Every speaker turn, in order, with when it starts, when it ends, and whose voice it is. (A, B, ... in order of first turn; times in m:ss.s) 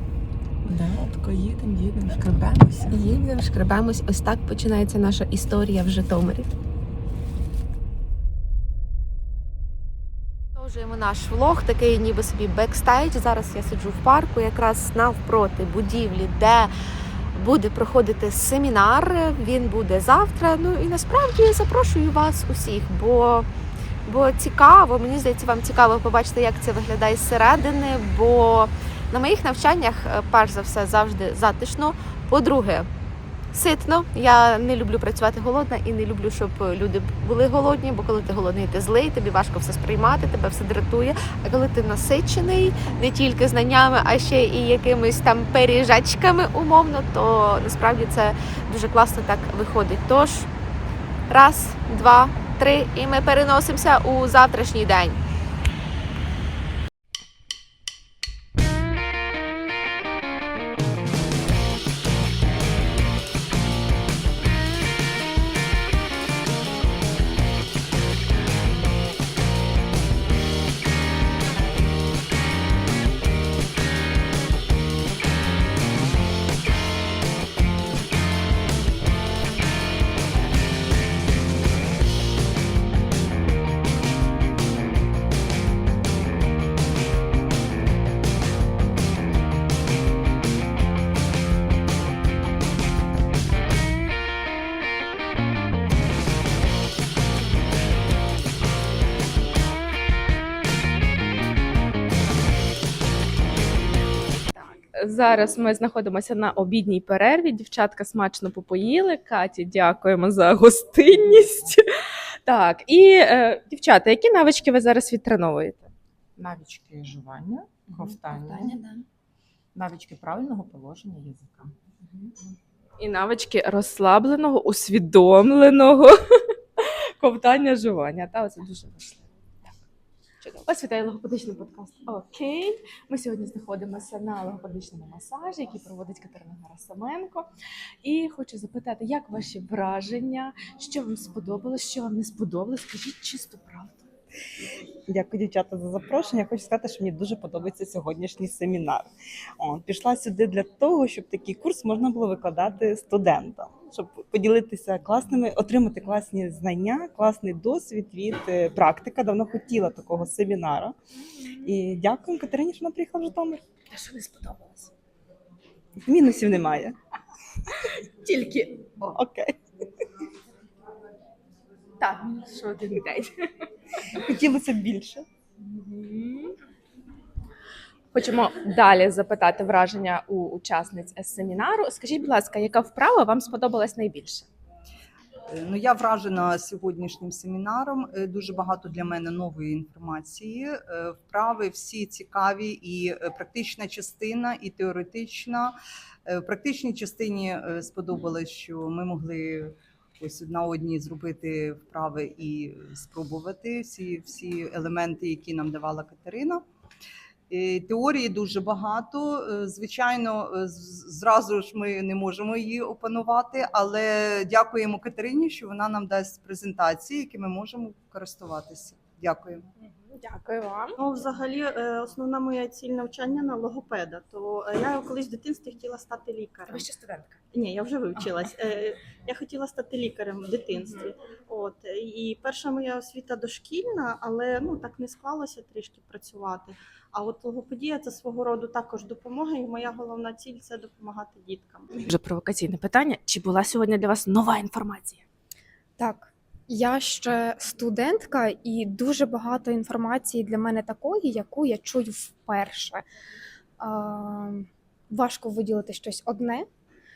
0:00.7-0:01.5 A
0:02.1-0:06.5 A
0:10.6-0:16.7 A
0:17.4-0:23.5 A
0:24.1-0:32.9 A
0:33.5-0:50.5 A
0:51.3-0:55.2 A
1:44.5-1:51.8 B
1:52.5-1:55.9 B
1:56.4-1:59.0 C
1:58.3-1:58.8 B
1:59.8-2:02.3 C
2:03.0-2:06.1 B
2:06.8-2:09.7 B
2:10.4-2:17.5 B
2:18.0-2:24.1 B
2:25.1-2:29.1 D
2:29.6-2:41.0 D
2:41.6-2:43.6 D
2:43.9-2:44.9 B
2:46.0-2:47.0 D
2:47.8-2:48.9 B
2:49.1-2:49.6 D
2:52.0-2:53.3 B
2:54.2-2:55.2 D
2:55.7-2:56.5 B
2:58.1-3:04.5 B
3:05.5-3:15.8 E
3:16.3-3:26.6 E
3:27.5-3:39.6 E
3:40.1-3:41.0 B
3:41.0-3:46.8 F
3:46.7-3:47.4 B
3:47.5-4:01.9 F
4:02.0-4:05.2 B
4:06.0-4:13.0 G
4:13.8-4:16.7 G